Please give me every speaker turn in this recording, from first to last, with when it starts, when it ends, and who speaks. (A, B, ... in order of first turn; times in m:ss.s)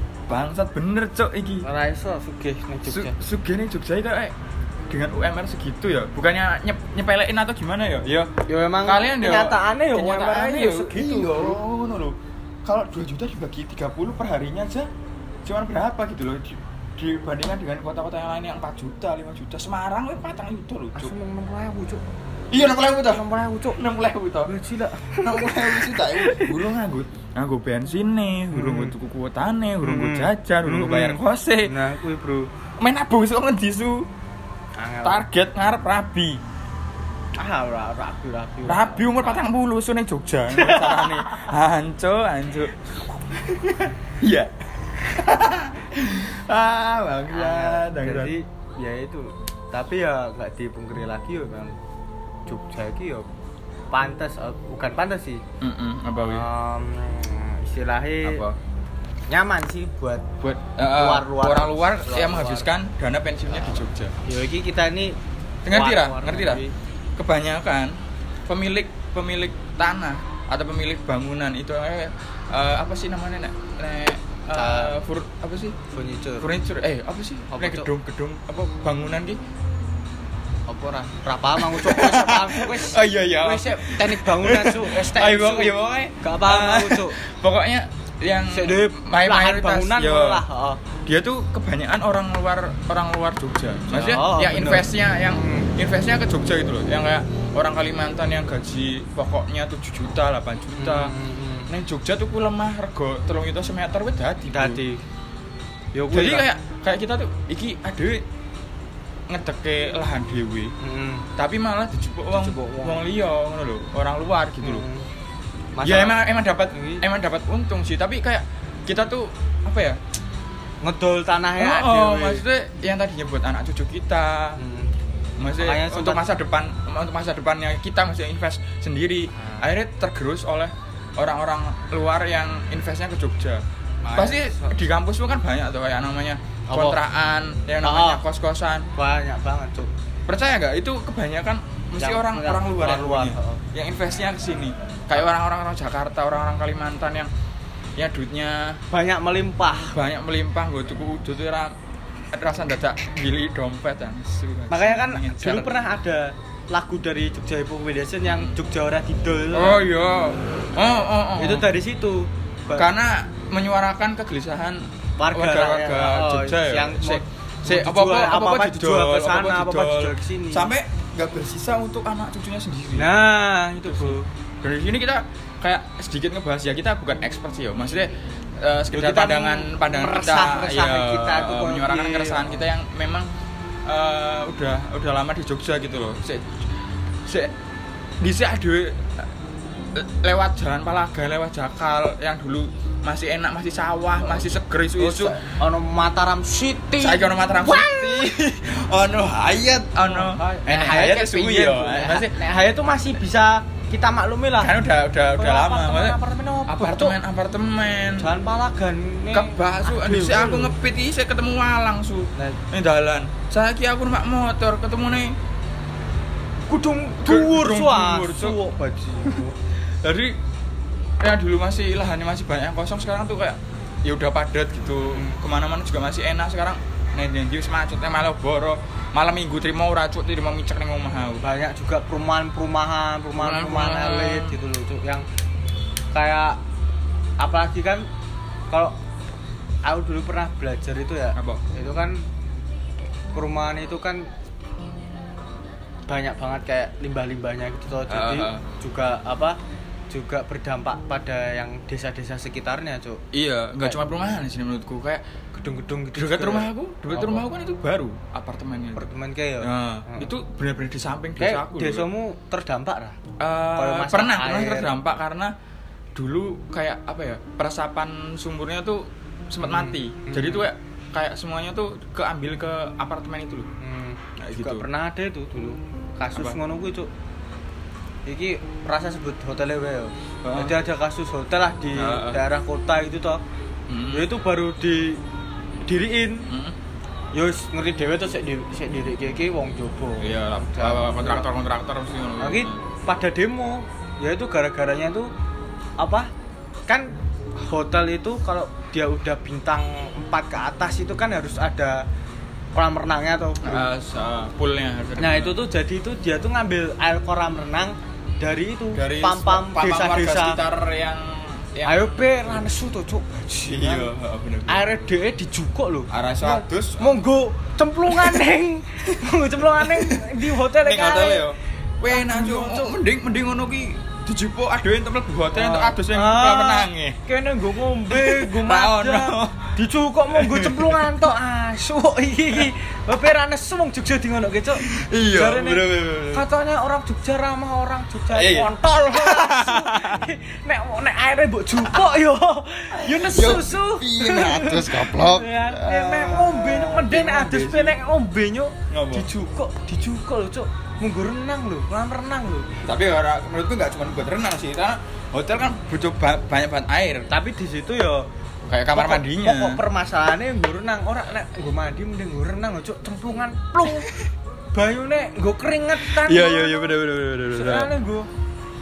0:00.3-0:01.7 A
0:01.6-0:03.2 B
0:02.9-0:04.4 A
0:04.9-0:14.9 A
0:08.5-0:11.6 B
0:15.4-0:21.1 A
0:21.0-0:22.0 B
0:22.5-0:24.5 A
0:23.0-0:23.8 B
0:24.4-0:26.6 B
0:25.1-0:31.7 A
0:28.5-0:28.9 B
0:29.8-0:32.5 B
0:32.8-0:34.1 A
0:34.8-0:35.3 B
0:35.0-0:36.4 A
0:37.4-0:39.4 B
0:38.7-0:42.8 A
0:40.5-0:41.5 B
0:43.3-0:48.3 A
0:47.3-0:51.8 B
0:52.5-0:53.3 B
0:53.9-0:55.4 B
0:55.6-0:56.5 A
0:56.2-0:58.5 B
0:58.2-0:58.6 A
0:59.3-1:00.3 B
1:00.4-1:04.2 A
1:00.8-1:02.7 B
1:03.5-1:05.2 B
1:05.7-1:06.6 A
1:05.7-1:06.7 B
1:07.2-1:07.9 A
1:08.5-1:15.8 A
1:14.5-1:15.0 B
1:15.9-1:16.5 B
1:16.4-1:19.4 A
1:17.5-1:17.9 B
1:20.7-1:27.2 B
1:21.6-1:30.5 A
1:28.5-1:30.8 B
1:31.0-1:41.2 A
1:33.9-1:35.7 B
1:40.8-1:41.7 B
1:41.7-1:44.8 A
1:44.5-1:45.0 B
1:45.9-1:46.5 B
1:46.1-1:48.2 A
1:49.3-1:50.7 A
1:50.8-1:51.3 B
1:51.4-1:54.8 A
1:52.3-1:53.0 B
1:54.6-1:55.1 B
1:55.8-1:57.0 B
1:55.8-2:00.0 A
2:00.8-2:02.4 B
2:01.6-2:04.6 A
2:04.6-2:04.9 B
2:05.4-2:13.6 A
2:05.6-2:06.3 B
2:09.3-2:09.7 B
2:14.0-2:14.8 B
2:14.2-2:18.9 A
2:16.7-2:17.0 B
2:17.8-2:18.2 B
2:19.0-2:19.9 B
2:20.3-2:27.3 A
2:22.0-2:23.6 B
2:28.0-2:28.8 A
2:28.9-2:30.0 B
2:29.9-2:31.7 A
2:32.3-2:35.7 A
2:34.7-2:39.8 B
2:38.2-2:38.6 A
2:39.5-2:41.7 A
2:41.4-2:42.9 B
2:42.7-2:53.1 A
2:45.2-2:50.7 B
2:53.0-2:54.3 B
2:53.8-3:03.3 A
2:58.9-3:02.7 B
3:03.9-3:06.7 A
3:07.3-3:07.5 A
3:08.2-3:09.3 A
3:09.9-3:15.4 A
3:14.2-3:18.4 B
3:17.0-3:22.4 A
3:20.0-3:24.8 B
3:24.6-3:28.3 A
3:25.4-3:27.2 B
3:28.2-3:30.8 B
3:29.3-3:35.4 A
3:36.7-3:39.6 B
3:37.2-3:38.6 A
3:39.2-3:40.4 A
3:41.2-3:51.4 A
3:45.0-3:45.4 B
3:51.4-3:55.3 B
3:53.4-3:54.6 A
3:56.1-3:56.6 B
3:57.4-3:58.1 B
3:58.7-3:59.0 B
3:59.8-4:02.2 B
4:01.4-4:01.6 A
4:03.3-4:04.3 B
4:06.1-4:09.6 B
4:08.1-4:08.6 A
4:10.1-4:13.2 B
4:13.3-4:15.2 A
4:15.5-4:17.5 B
4:16.1-4:19.1 A
4:19.0-4:20.3 B
4:19.6-4:22.1 A
4:21.4-4:23.2 B
4:23.4-4:25.5 A
4:23.8-4:24.9 B
4:26.2-4:33.7 A
4:29.6-4:30.7 B
4:33.8-4:37.1 B
4:34.4-4:34.9 A
4:36.3-4:36.6 A
4:38.3-4:43.4 B
4:40.4-4:40.8 A
4:42.0-4:42.4 A
4:43.9-4:44.3 A
4:44.1-4:45.2 B
4:45.8-4:46.5 B
4:46.5-4:46.8 A
4:47.3-4:51.5 B
4:50.2-4:52.8 A
4:52.4-4:55.3 B
4:56.0-4:56.3 B
4:56.9-5:02.0 B
5:02.8-5:03.9 B
5:03.6-5:05.6 A
5:05.2-5:10.6 B
5:08.9-5:12.6 A
5:11.8-5:14.1 B
5:13.7-5:14.9 A
5:14.7-5:21.5 B
5:16.1-5:17.2 A
5:18.1-5:18.5 A
5:19.0-5:27.2 A
5:22.1-5:23.0 B
5:25.5-5:52.7 B
5:28.1-5:29.7 A
5:30.3-5:31.0 A
5:34.8-5:36.4 A
5:38.3-5:40.3 A
5:42.9-5:48.0 A
5:48.9-5:49.3 A
5:52.8-5:57.3 A
5:57.3-5:58.3 B
5:58.7-5:59.8 A
5:58.9-6:04.1 B
6:03.9-6:04.2 A
6:04.7-6:06.9 B
6:06.0-6:07.9 A
6:07.5-6:08.3 B